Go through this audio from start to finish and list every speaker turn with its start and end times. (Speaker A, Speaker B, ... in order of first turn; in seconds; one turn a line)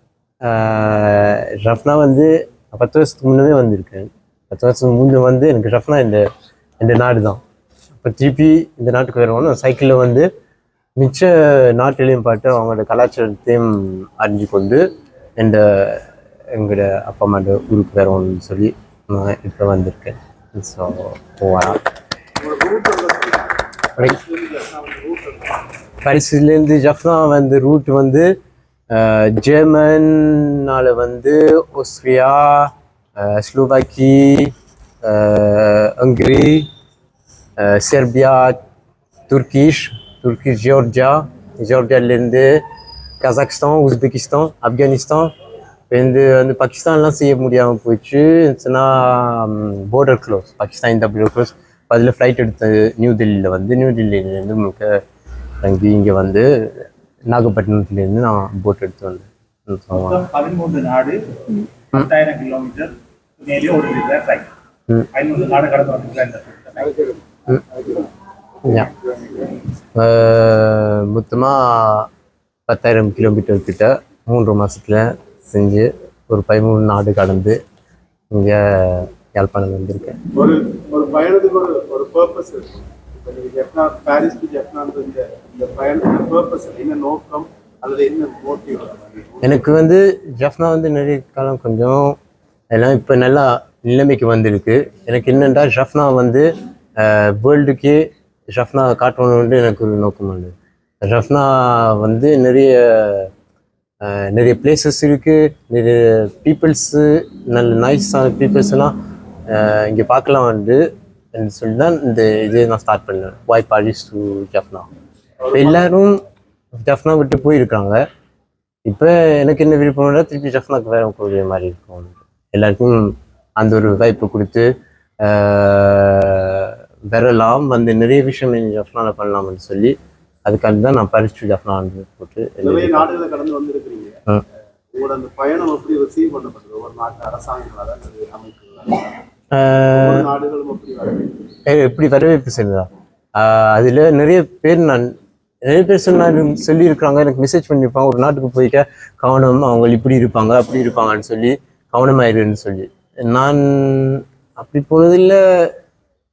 Speaker A: 0.5-6.2
Speaker A: 6.8-7.4
Speaker A: 8.0-10.3
Speaker A: 11.0-14.8
Speaker A: 15.4-21.8
Speaker B: 22.4-25.6
Speaker A: 26.0-28.3
Speaker A: 28.9-34.5
Speaker A: 35.1-36.7
Speaker A: 37.6-38.6
Speaker A: 39.3-42.5
Speaker A: 43.2-45.3
Speaker A: 45.9-54.9
Speaker A: 55.6-60.3
Speaker C: 60.0-64.5
Speaker C: 65.1-67.1
Speaker A: 70.0-72.1
Speaker A: 72.7-77.6
Speaker A: 78.3-80.2
Speaker B: 80.3-89.6
Speaker A: 89.4-92.2
Speaker A: 92.7-96.5
Speaker A: 97.0-103.3
Speaker A: 104.0-108.9
Speaker A: 109.5-110.8
Speaker A: 111.3-114.9
Speaker B: 115.4-115.9
Speaker A: 115.5-116.2
Speaker A: 116.8-118.0
Speaker A: 118.9-124.7
Speaker A: 125.2-129.9
Speaker A: 130.4-133.1
Speaker B: 132.6-134.2
Speaker B: 134.9-139.1
Speaker A: 139.5-140.3
Speaker B: 139.9-141.4
Speaker A: 141.7-145.1
Speaker A: 145.6-155.7